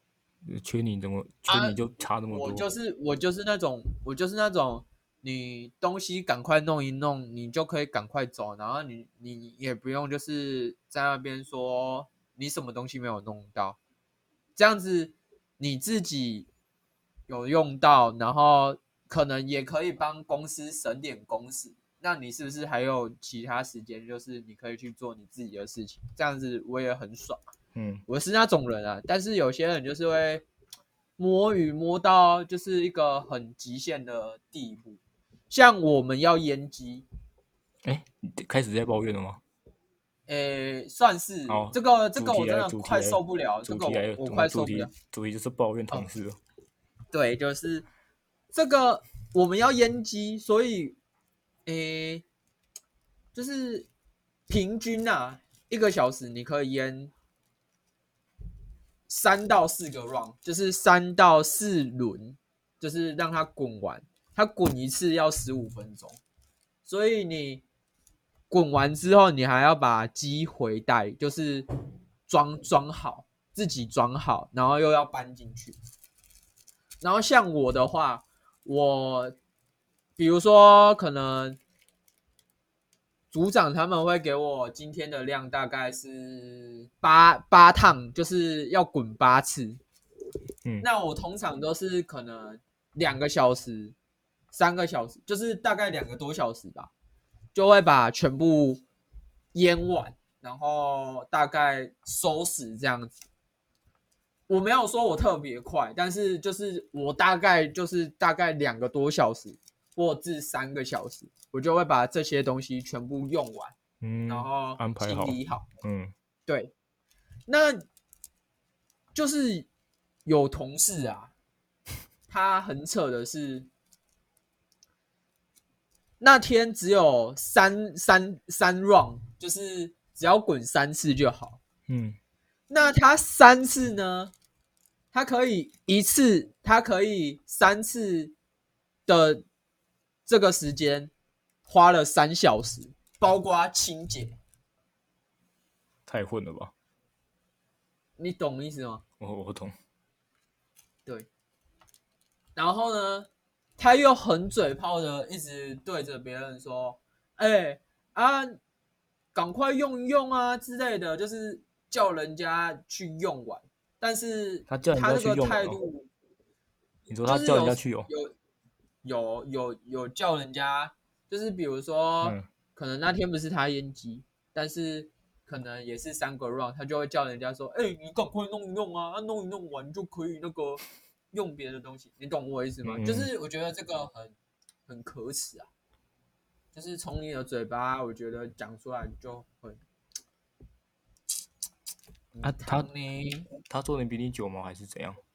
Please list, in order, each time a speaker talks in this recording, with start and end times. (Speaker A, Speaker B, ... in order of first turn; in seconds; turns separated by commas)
Speaker A: 0.4-2.7, Speaker B: 1.5-1.8, Speaker B: 2.3-13.8, Speaker B: 14.6-16.5, Speaker B: 17.3-27.4, Speaker A: 27.7-28.0, Speaker B: 28.1-30.4, Speaker B: 31.2-37.0, Speaker A: 37.8-39.4, Speaker B: 40.3-44.9, Speaker A: 41.5-46.4, Speaker B: 47.1-47.9, Speaker B: 48.5-51.0, Speaker B: 51.6-52.2, Speaker B: 53.3-53.9, Speaker B: 54.5-57.1, Speaker B: 59.1-66.2, Speaker B: 66.8-67.6, Speaker B: 68.5-71.7, Speaker B: 72.3-75.8, Speaker B: 77.0-79.3, Speaker B: 80.2-81.6, Speaker B: 83.3-89.8, Speaker B: 90.8-93.9, Speaker B: 94.5-96.9, Speaker B: 97.5-98.8, Speaker B: 99.5-103.2, Speaker B: 104.5-113.8, Speaker A: 114.0-116.1, Speaker B: 114.3-115.7, Speaker B: 116.5-116.7, Speaker B: 117.5-117.8, Speaker B: 119.1-119.7, Speaker B: 120.2-121.3, Speaker B: 122.3-123.7, Speaker B: 126.2-131.6, Speaker A: 131.9-132.2, Speaker B: 132.7-134.3, Speaker B: 135.1-138.3, Speaker B: 139.1-139.4, Speaker B: 140.2-141.1, Speaker B: 141.7-144.4, Speaker A: 146.1-146.7, Speaker B: 148.2-149.0, Speaker A: 149.2-149.7, Speaker B: 152.6-158.6, Speaker B: 159.3-166.1, Speaker A: 164.7-165.8, Speaker A: 167.1-168.1, Speaker B: 167.2-168.3, Speaker B: 169.0-184.3, Speaker A: 172.2-172.5, Speaker A: 182.8-183.3, Speaker B: 184.9-185.7, Speaker B: 186.7-189.8, Speaker B: 192.3-193.5, Speaker A: 192.4-192.9, Speaker A: 193.6-195.2